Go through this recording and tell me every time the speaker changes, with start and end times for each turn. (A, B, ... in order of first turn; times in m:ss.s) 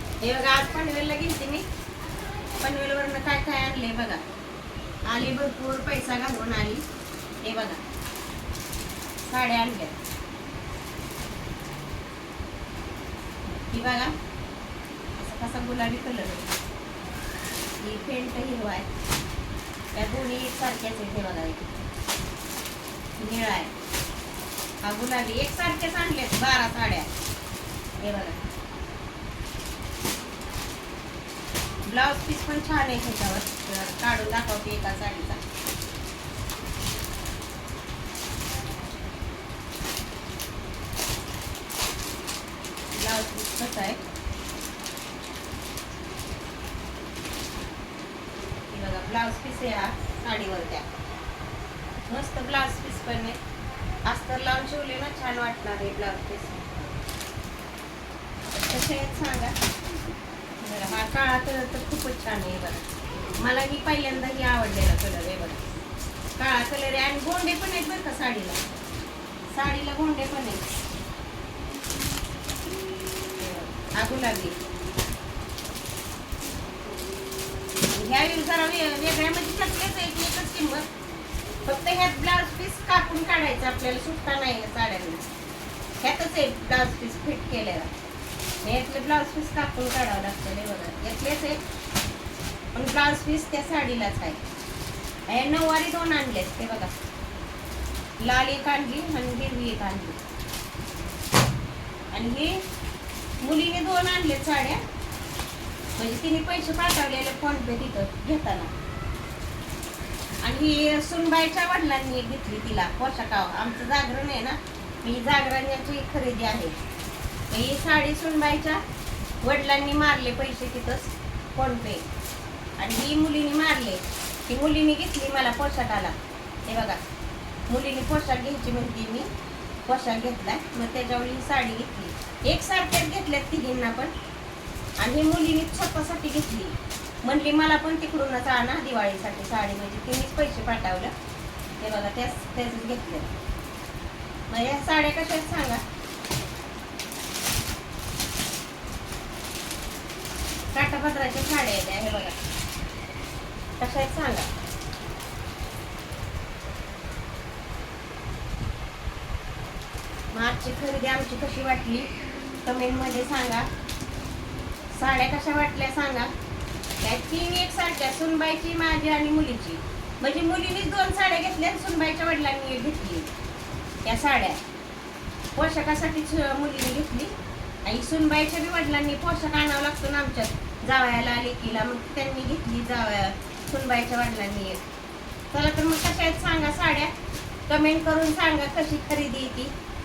0:00.2-0:01.6 A
0:02.6-0:04.2 A
0:05.1-0:06.8 A
0:07.4-0:07.8 A
0:09.2-0:09.9 A
0:13.7-0:14.1 A
0:15.2-0:16.4 A
0:17.8-0:18.9 A
0:19.9-0:21.7 A
0:23.2-0:23.7 A
0:24.8-0:27.1 A
0:28.0-0:28.4 A
0:31.9-0:35.4 A
0:42.9-0:44.0 A
0:48.7-0:50.8 A
0:52.1-0:53.4 A
0:54.0-0:56.8 A
0:58.5-0:59.5 A
1:00.6-1:05.6 A
1:06.4-1:08.6 A
1:09.5-1:10.6 A
1:13.4-1:14.6 A
1:17.9-1:20.9 A
1:21.6-1:25.2 A
1:26.0-1:27.9 A
1:28.6-1:31.6 A
1:32.7-1:34.4 A
1:35.3-1:36.9 A
1:38.2-1:40.2 A
1:42.1-1:42.6 A
1:43.4-1:44.8 A
1:46.0-1:48.7 A
1:50.4-1:56.8 A
1:57.5-1:58.8 A
1:59.4-2:02.0 A
2:02.8-2:06.1 A
2:06.7-2:07.0 A
2:07.7-2:09.3 A
2:09.8-2:14.1 A
2:15.0-2:21.1 A
2:21.8-2:23.3 A
2:24.5-2:25.8 A
2:30.7-2:32.3 A
2:33.8-2:34.5 A
2:40.3-2:42.1 A
2:42.6-2:43.7 A
2:44.9-2:46.3 A
2:47.0-2:53.3 A
2:54.0-2:54.6 A
2:55.6-2:57.3 A
2:57.8-3:04.8 A
3:05.5-3:07.1 A
3:07.7-3:09.7 A